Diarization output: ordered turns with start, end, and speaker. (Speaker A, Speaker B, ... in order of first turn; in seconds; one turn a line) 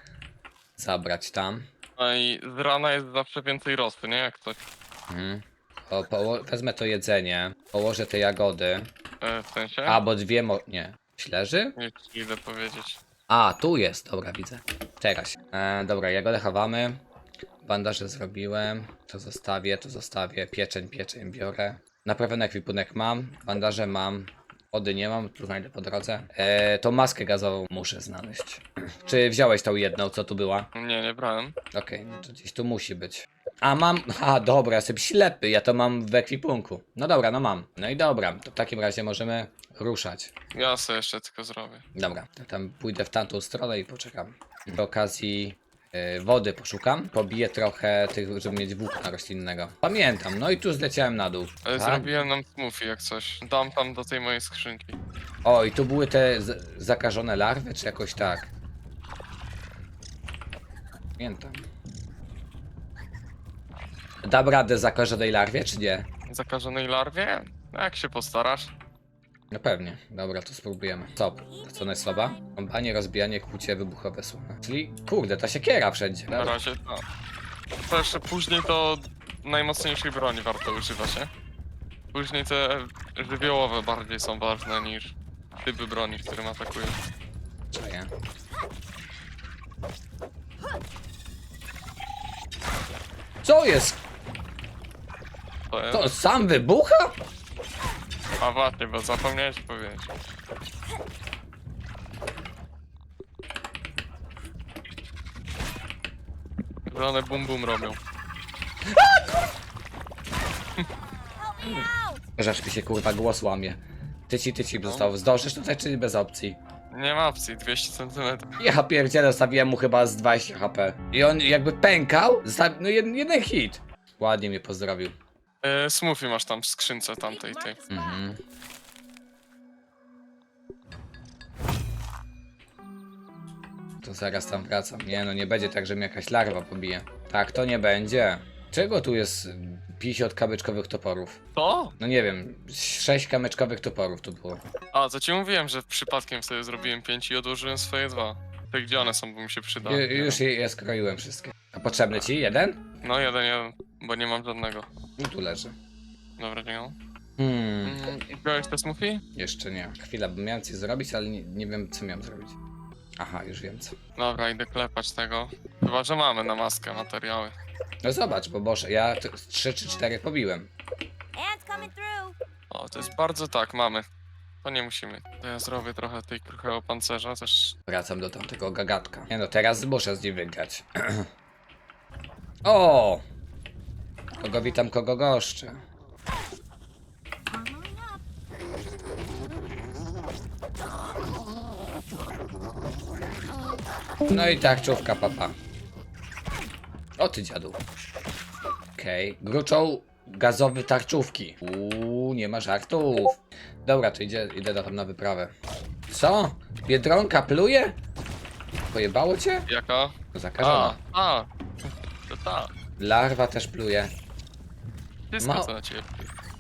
Speaker A: 0.8-1.7
Speaker B: 2.0-4.6
Speaker A: 5.1-8.9
Speaker B: 9.2-10.0
Speaker A: 9.9-11.8
Speaker B: 11.8-13.0
Speaker A: 13.3-17.0
Speaker A: 17.6-30.7
Speaker B: 30.8-31.6
Speaker A: 31.7-40.3
Speaker B: 40.5-41.8
Speaker A: 42.0-52.1
Speaker B: 51.6-55.0
Speaker A: 55.5-58.5
Speaker A: 61.2-61.7
Speaker A: 64.2-66.1
Speaker B: 66.3-68.7
Speaker A: 69.5-76.5
Speaker C: 71.5-72.2
Speaker B: 76.3-77.0
Speaker B: 77.8-81.3
Speaker B: 82.1-87.0
Speaker A: 87.7-88.1
Speaker A: 93.4-94.0
Speaker B: 95.7-96.1
Speaker A: 95.9-97.1
Speaker B: 98.4-100.1
Speaker B: 106.9-108.0
Speaker A: 108.9-109.3
Speaker C: 111.5-112.2
Speaker A: 111.6-116.6
Speaker B: 114.8-115.1
Speaker B: 116.9-118.6
Speaker A: 118.6-125.1
Speaker B: 125.6-127.8
Speaker C: 127.3-128.2
Speaker A: 127.9-128.4
Speaker A: 134.0-141.4
Speaker B: 141.6-142.0
Speaker A: 142.0-144.6
Speaker B: 144.9-150.4
Speaker A: 149.8-152.8
Speaker B: 153.0-154.9
Speaker A: 155.2-155.8
Speaker B: 156.4-157.0
Speaker A: 157.4-158.0
Speaker B: 157.8-159.2
Speaker A: 159.4-162.6
Speaker A: 163.2-164.0
Speaker B: 164.2-167.6
Speaker A: 168.0-170.7
Speaker C: 171.3-172.3
Speaker B: 172.7-174.1
Speaker B: 174.6-177.8
Speaker A: 177.9-181.3
Speaker A: 182.6-183.2
Speaker A: 184.4-185.8
Speaker C: 187.5-188.0
Speaker A: 194.3-195.5
Speaker A: 197.2-197.8
Speaker A: 199.0-205.5
Speaker A: 206.1-208.0
Speaker A: 208.9-209.7
Speaker B: 209.7-212.7
Speaker A: 210.3-211.0
Speaker A: 213.0-214.1
Speaker B: 215.3-216.3
Speaker A: 215.4-215.7